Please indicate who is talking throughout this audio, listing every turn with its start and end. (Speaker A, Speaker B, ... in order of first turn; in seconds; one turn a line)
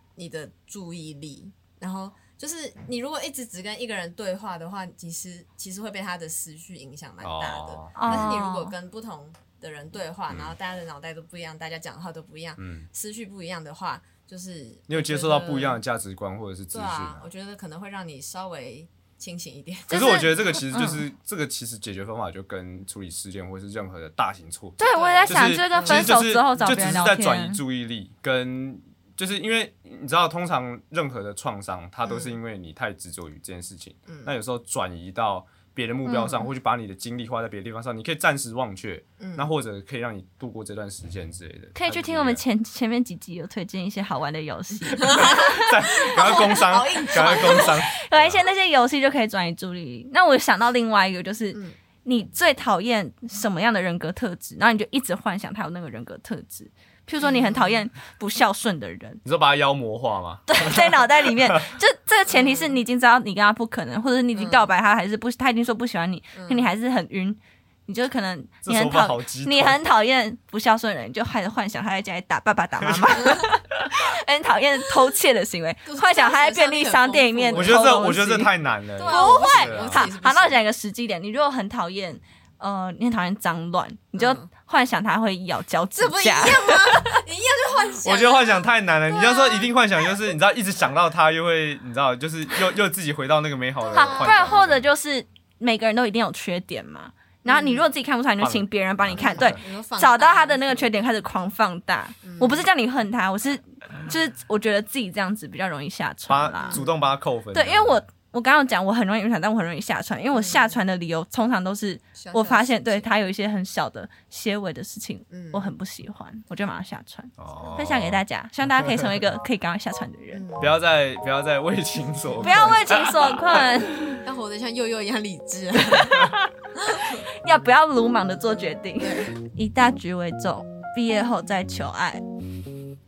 Speaker A: 0.2-15.8
Speaker B: 7.2-8.3
Speaker C: 8.0-8.8
Speaker B: 10.3-10.6
Speaker B: 12.6-12.9
Speaker B: 14.9-17.3
Speaker A: 16.7-20.2
Speaker B: 19.9-42.4
Speaker C: 19.9-21.1
Speaker C: 24.8-27.6
Speaker A: 24.8-26.1
Speaker A: 32.0-32.4
Speaker A: 34.1-34.4
Speaker C: 36.0-36.5
Speaker A: 39.2-39.5
Speaker C: 41.7-45.6
Speaker A: 45.0-47.8
Speaker B: 45.1-48.5
Speaker C: 47.1-59.2
Speaker A: 57.2-57.8
Speaker B: 59.2-61.6
Speaker C: 60.5-78.5
Speaker A: 62.3-62.8
Speaker A: 64.3-64.7
Speaker A: 66.3-66.7
Speaker B: 68.6-69.8
Speaker B: 72.8-73.5
Speaker A: 75.9-78.2
Speaker B: 77.5-80.1
Speaker A: 79.0-80.6
Speaker C: 79.1-87.2
Speaker A: 84.2-84.5
Speaker A: 86.0-88.7
Speaker B: 88.0-94.9
Speaker A: 89.3-89.6
Speaker A: 93.8-94.6
Speaker C: 93.9-106.8
Speaker A: 97.5-97.9
Speaker B: 98.4-99.6
Speaker A: 99.2-101.0
Speaker A: 102.2-102.7
Speaker B: 106.3-108.0
Speaker A: 106.6-107.0
Speaker C: 107.5-120.4
Speaker A: 110.3-110.8
Speaker A: 112.1-113.1
Speaker A: 115.3-115.7
Speaker B: 117.4-119.2
Speaker A: 120.3-120.8
Speaker B: 120.6-123.7
Speaker C: 122.4-124.2
Speaker A: 124.2-127.2
Speaker C: 125.9-132.2
Speaker A: 129.0-129.3